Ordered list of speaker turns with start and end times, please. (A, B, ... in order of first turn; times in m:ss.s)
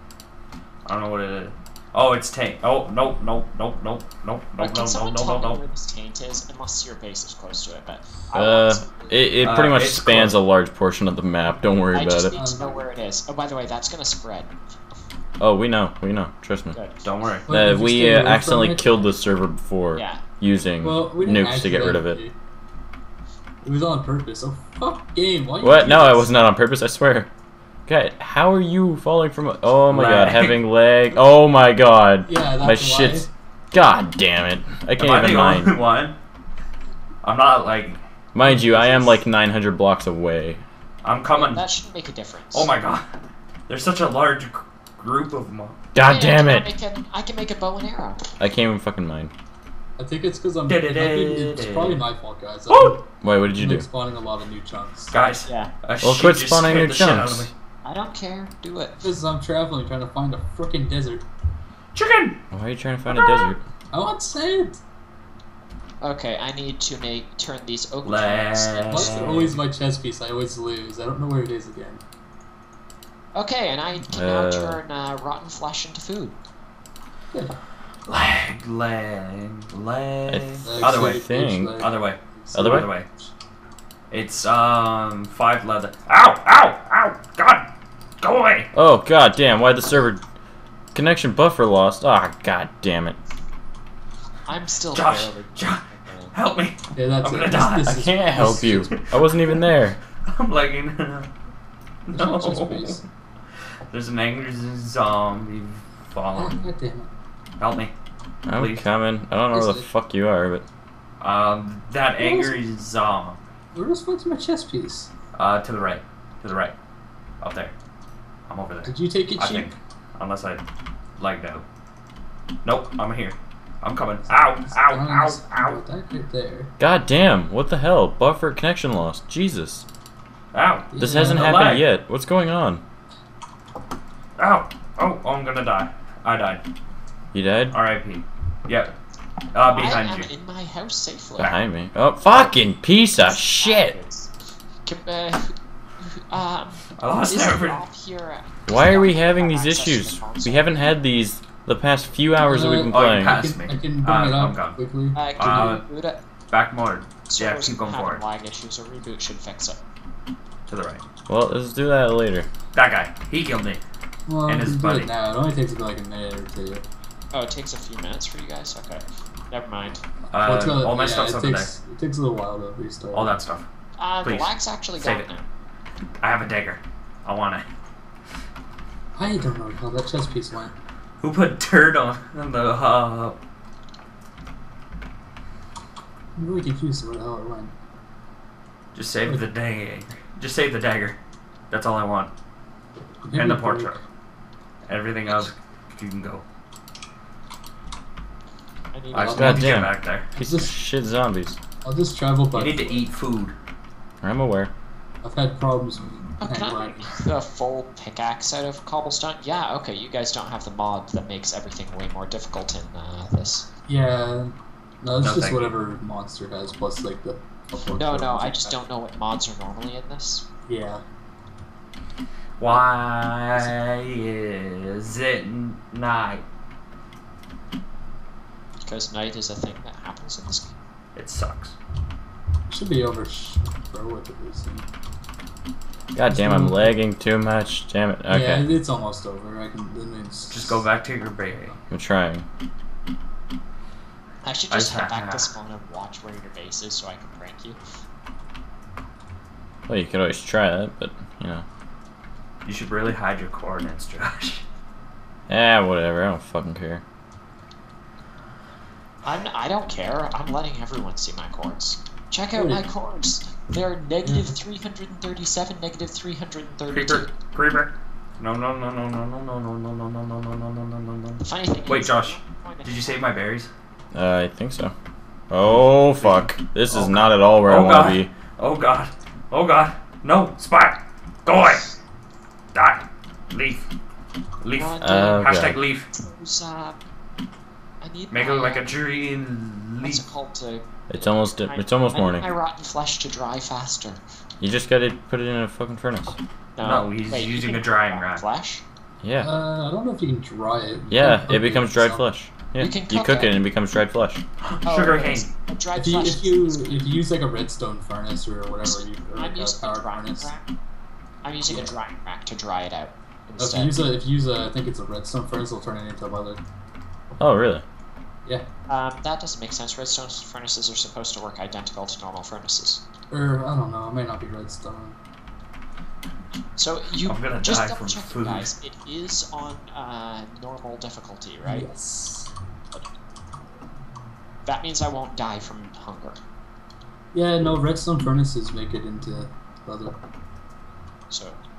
0:00.9-0:05.6 A
0:04.6-0:09.1 B
0:08.3-0:12.4 C
0:09.4-0:10.4 A
0:11.9-0:14.6 B
0:12.3-0:12.8 D
0:15.4-0:16.8 C
0:16.7-0:17.0 B
0:17.0-0:17.5 A
0:17.5-0:19.1 D
0:17.5-0:22.2 C
0:19.9-0:20.2 B
0:20.8-0:22.3 D
0:23.6-0:26.4 D
0:25.6-0:27.3 C
0:27.9-0:35.8 C
0:29.9-0:30.6 A
0:32.2-0:33.3 D
0:35.0-0:36.2 A
0:37.2-0:38.0 A
0:38.3-0:40.6 C
0:38.4-0:39.2 D
0:41.0-0:41.6 A
0:41.3-0:42.7 B
0:42.5-0:43.1 A
0:43.7-0:45.8 A
0:45.9-0:46.7 C
0:46.0-0:48.2 B
0:48.4-0:49.3 C
0:50.0-0:55.1 D
0:50.7-0:52.0 A
0:52.7-0:53.0 A
0:53.2-0:53.9 C
0:55.1-0:57.5 A
0:55.5-0:55.7 B
0:56.0-0:57.5 C
0:57.8-0:59.0 B
0:59.0-1:01.2 D
1:01.9-1:02.4 A
1:02.5-1:03.6 C
1:03.9-1:04.8 D
1:06.0-1:09.3 B
1:08.0-1:09.6 A
1:08.9-1:12.0 D
1:13.3-1:16.4 B
1:14.1-1:14.8 C
1:18.1-1:21.2 A
1:20.3-1:21.9 C
1:20.6-1:23.3 D
1:21.8-1:23.1 A
1:22.5-1:22.9 C
1:24.1-1:27.7 A
1:28.2-1:28.7 A
1:28.7-1:30.2 C
1:30.9-1:33.2 C
1:34.5-1:36.3 B
1:34.9-1:38.0 A
1:36.9-1:39.0 D
1:37.8-1:40.0 C
1:39.0-1:39.6 A
1:40.2-1:41.3 A
1:42.1-1:43.0 A
1:42.1-1:43.0 D
1:43.9-1:46.7 A
1:46.4-1:47.1 D
1:47.6-1:47.9 A
1:48.5-1:50.6 C
1:48.5-1:48.8 A
1:49.5-1:49.9 D
1:51.2-1:53.4 A
1:52.2-1:52.6 D
1:53.8-1:55.1 D
1:55.3-1:56.8 A
1:57.4-1:57.7 A
1:58.5-2:00.6 A
1:58.8-1:59.8 D
2:01.2-2:01.6 A
2:02.6-2:05.8 A
2:04.7-2:06.7 D
2:06.8-2:09.9 C
2:10.5-2:11.9 A
2:10.9-2:11.6 D
2:11.0-2:12.8 C
2:14.4-2:16.6 A
2:17.3-2:17.8 C
2:17.7-2:18.9 A
2:19.5-2:20.3 A
2:19.6-2:21.6 B
2:21.4-2:24.0 C
2:22.2-2:24.3 B
2:24.8-2:31.0 B
2:27.0-2:27.8 A
2:28.7-2:33.4 C
2:32.4-2:35.8 D
2:32.8-2:35.8 A
2:35.1-2:36.2 B
2:36.5-2:38.2 A
2:37.3-2:39.8 B
2:40.7-2:41.0 A
2:41.3-2:42.5 C
2:42.7-2:43.8 A
2:44.3-2:46.8 D
2:44.4-2:45.1 A
2:47.3-2:50.0 B
2:50.3-2:51.8 A
2:50.4-2:53.4 D
2:53.1-2:53.7 A
2:54.0-2:55.4 B
2:54.2-2:55.2 A
2:56.2-2:57.6 A
2:59.1-3:00.8 D
3:01.2-3:03.4 A
3:06.4-3:07.7 D
3:08.9-3:11.2 A
3:11.7-3:12.3 A
3:13.2-3:14.0 D
3:13.3-3:14.0 A
3:14.9-3:16.4 A
3:18.9-3:19.6 B
3:19.1-3:20.3 A
3:19.2-3:19.8 D
3:19.3-3:21.6 C
3:20.4-3:20.7 D
3:21.8-3:23.1 D
3:22.5-3:23.6 A
3:24.2-3:24.7 C
3:25.2-3:27.1 D
3:26.4-3:33.6 B
3:33.9-3:38.8 D
3:35.2-3:35.8 A
3:37.9-3:40.4 B
3:40.7-3:41.0 D
3:42.6-3:46.4 A
3:48.8-3:50.8 B
3:51.1-3:51.8 A
3:52.7-3:54.9 D
3:56.1-3:58.8 C
3:56.2-3:57.0 D
3:58.3-4:00.8 D
4:00.5-4:01.8 A
4:01.9-4:02.4 C
4:04.4-4:07.8 B
4:04.7-4:05.5 A
4:09.9-4:11.6 C
4:12.6-4:14.6 A
4:15.5-4:17.0 C
4:19.2-4:27.3 B
4:22.5-4:22.9 D
4:24.2-4:24.5 D
4:26.9-4:33.7 A
4:31.4-4:33.3 B
4:34.1-4:34.9 C
4:35.5-4:38.3 C
4:35.7-4:41.9 A
4:42.7-4:43.9 A
4:44.6-4:46.1 A
4:44.7-4:45.5 B
4:45.0-4:45.8 C
4:46.1-4:47.0 B
4:48.0-4:48.9 B
4:48.3-4:50.2 A
4:50.0-4:54.2 B
4:51.1-4:52.5 C
4:54.6-4:56.4 C
4:56.8-4:58.8 B
4:56.8-4:58.4 A
4:59.2-4:59.5 C
4:59.4-5:02.2 D
5:01.1-5:04.4 C
5:02.8-5:03.6 B
5:04.6-5:05.5 A
5:04.8-5:07.2 B
5:06.0-5:10.5 D
5:08.8-5:10.6 B
5:11.4-5:14.1 B
5:13.6-5:16.6 D
5:17.4-5:17.8 C
5:18.9-5:23.0 B
5:23.3-5:25.2 D
5:26.8-5:31.9 B
5:27.2-5:28.7 A
5:31.6-5:32.5 D
5:34.6-5:36.4 B
5:37.3-5:40.1 D
5:41.3-5:41.6 B